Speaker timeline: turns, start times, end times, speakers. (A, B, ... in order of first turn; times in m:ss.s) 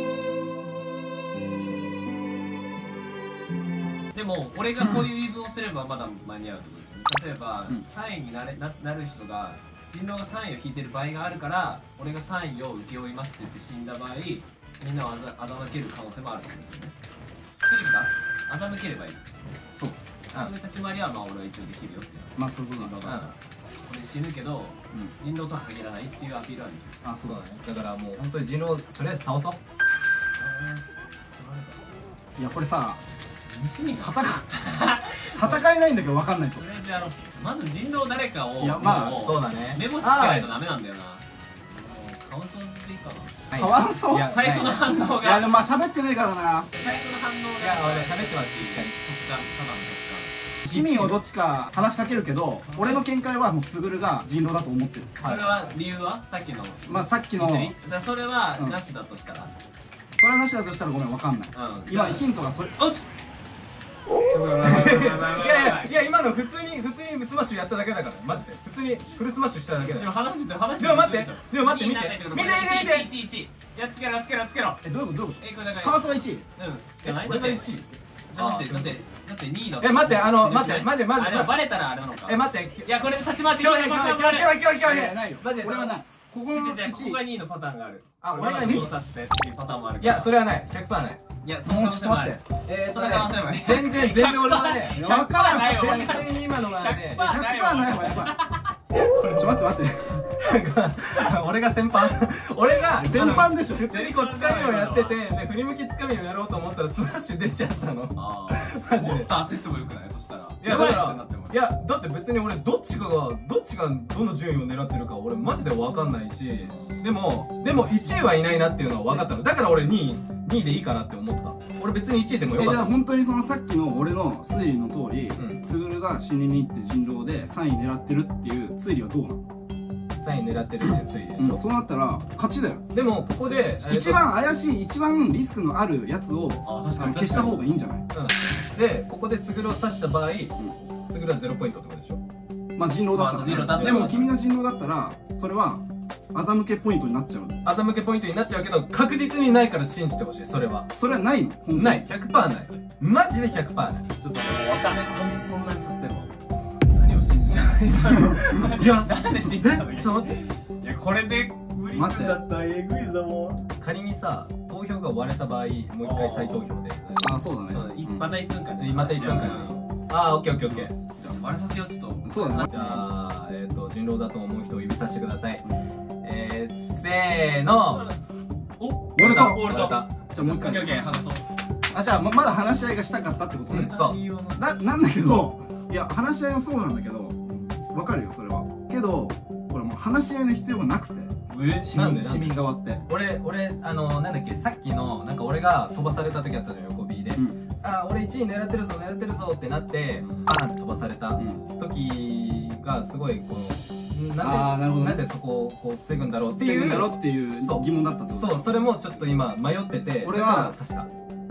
0:04.1-0:16.9 A
0:17.6-0:19.2 A
0:20.3-0:26.9 A
0:22.4-0:23.0 B
0:23.0-0:23.3 C
0:27.0-0:27.4 B
0:27.2-0:29.6 C
0:30.4-0:32.1 A
0:32.4-0:33.0 B
0:33.5-0:35.6 A
0:34.0-0:34.5 B
0:35.3-0:36.6 B
0:36.6-0:43.3 A
0:38.6-0:39.3 B
0:39.0-0:40.6 C
0:43.5-0:44.6 C
0:43.5-0:46.7 B
0:44.2-0:45.7 A
0:46.7-0:51.1 A
0:47.6-0:48.9 C
0:50.6-0:55.3 B
0:52.7-0:53.0 A
0:55.2-0:59.5 A
0:55.2-0:55.6 C
0:56.8-0:57.7 B
1:00.1-1:02.8 B
1:01.5-1:02.2 A
1:02.8-1:03.0 A
1:04.3-1:06.0 A
1:04.6-1:10.1 C
1:09.8-1:14.8 A
1:10.8-1:13.1 C
1:14.8-1:16.4 B
1:15.4-1:17.7 A
1:17.0-1:19.0 C
1:18.3-1:24.6 A
1:19.8-1:21.6 C
1:22.2-1:23.0 C
1:23.5-1:26.0 C
1:24.8-1:27.2 B
1:26.5-1:30.3 A
1:28.2-1:28.9 C
1:28.6-1:28.9 B
1:30.0-1:31.2 C
1:31.4-1:39.3 A
1:31.6-1:32.4 B
1:32.6-1:37.4 C
1:34.9-1:36.3 B
1:37.2-1:38.4 B
1:38.9-1:39.6 C
1:39.3-1:40.3 B
1:40.3-1:49.3 C
1:42.9-1:44.0 B
1:43.9-1:45.2 A
1:48.1-1:51.6 A
1:50.6-2:02.9 C
1:56.6-1:57.0 A
1:57.9-1:58.3 A
2:02.5-2:09.4 B
2:10.2-2:11.6 C
2:10.9-2:18.1 B
2:12.9-2:14.2 C
2:16.6-2:17.6 A
2:18.1-2:22.2 C
2:22.8-2:27.6 B
2:23.1-2:24.3 A
2:23.4-2:24.3 C
2:27.6-2:30.9 C
2:31.0-2:32.0 B
2:31.7-2:34.1 C
2:34.2-2:36.3 A
2:36.9-2:43.6 A
2:38.6-2:40.4 C
2:41.9-2:42.4 B
2:43.8-2:47.4 C
2:46.0-2:46.7 A
2:47.2-2:48.3 B
2:47.7-2:49.8 A
2:48.8-2:50.9 C
2:49.2-2:49.7 B
2:50.7-2:51.4 B
2:51.3-2:53.0 A
2:52.2-2:53.0 B
2:52.6-2:55.6 C
2:56.2-2:58.1 C
2:57.8-2:58.2 A
2:58.8-3:01.4 A
2:59.1-3:00.3 C
2:59.1-3:01.2 B
3:01.9-3:04.0 B
3:03.7-3:04.2 C
3:03.7-3:04.7 A
3:04.6-3:13.0 B
3:11.5-3:11.9 A
3:11.9-3:31.1 C
3:21.4-3:21.6 B
3:24.4-3:25.2 B
3:26.6-3:29.1 B
3:30.2-3:30.8 B